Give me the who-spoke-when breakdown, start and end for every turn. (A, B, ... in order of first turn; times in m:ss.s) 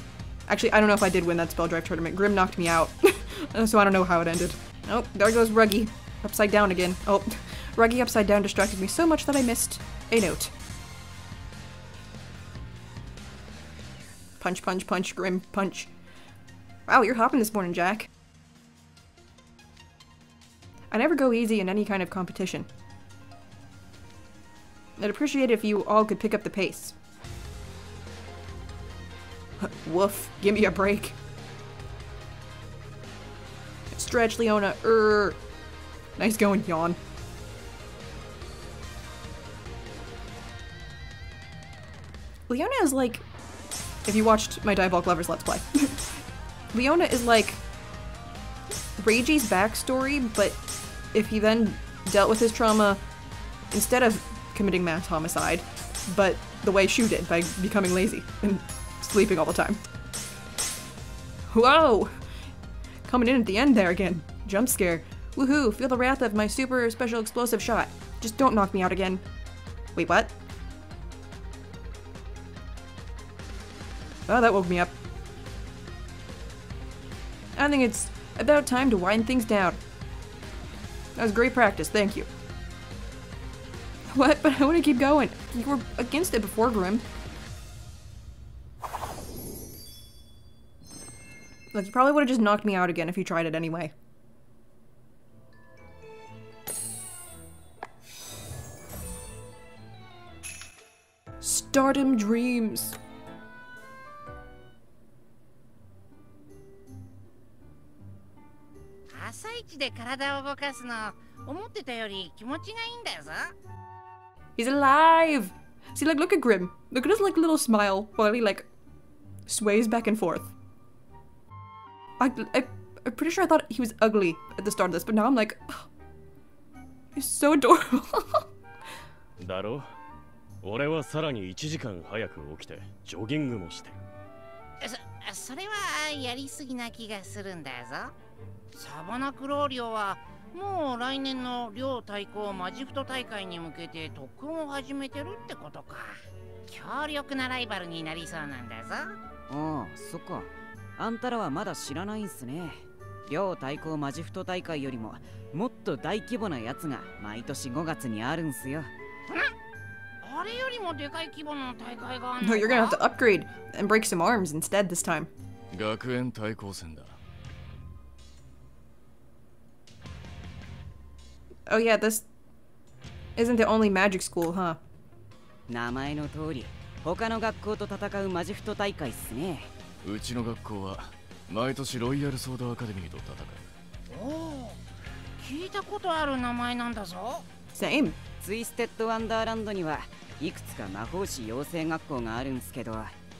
0:00.5-0:10.5 A
0:14.4-0:15.9 A
0:16.9-0:18.1 A
0:20.9-0:22.7 A
0:25.0-0:26.9 A
0:29.6-0:31.2 A
0:33.9-0:35.4 A
0:36.2-0:37.0 A
0:42.5-0:43.2 A
0:44.0-0:46.2 A
0:46.7-0:47.6 A
0:49.0-0:50.6 A
0:51.1-0:53.0 A
0:53.7-0:59.8 A
1:01.5-1:02.2 A
1:03.0-1:09.2 A
1:10.0-1:10.3 A
1:14.3-1:14.9 A
1:17.6-1:19.8 A
1:21.2-1:22.3 A
1:24.1-1:27.0 A
1:31.7-1:33.9 A
1:41.4-1:43.0 A
1:49.1-1:53.5 B
1:54.6-1:58.7 A
1:59.5-2:00.5 A
2:02.2-2:05.9 A
2:07.1-2:08.5 A
2:09.4-2:09.9 C
2:10.6-2:14.0 C
2:14.8-2:18.1 B
2:18.7-2:26.2 B
2:26.7-2:29.2 B
2:29.5-2:38.9 D
2:40.2-2:43.0 B
2:42.4-2:45.3 A
2:45.7-2:47.2 E
2:51.7-2:52.2 A
2:53.4-2:54.8 A
2:55.7-2:59.7 D
3:00.0-3:03.7 E
3:04.1-3:04.8 B
3:05.4-3:07.4 B
3:07.7-3:08.2 A
3:08.4-3:13.1 D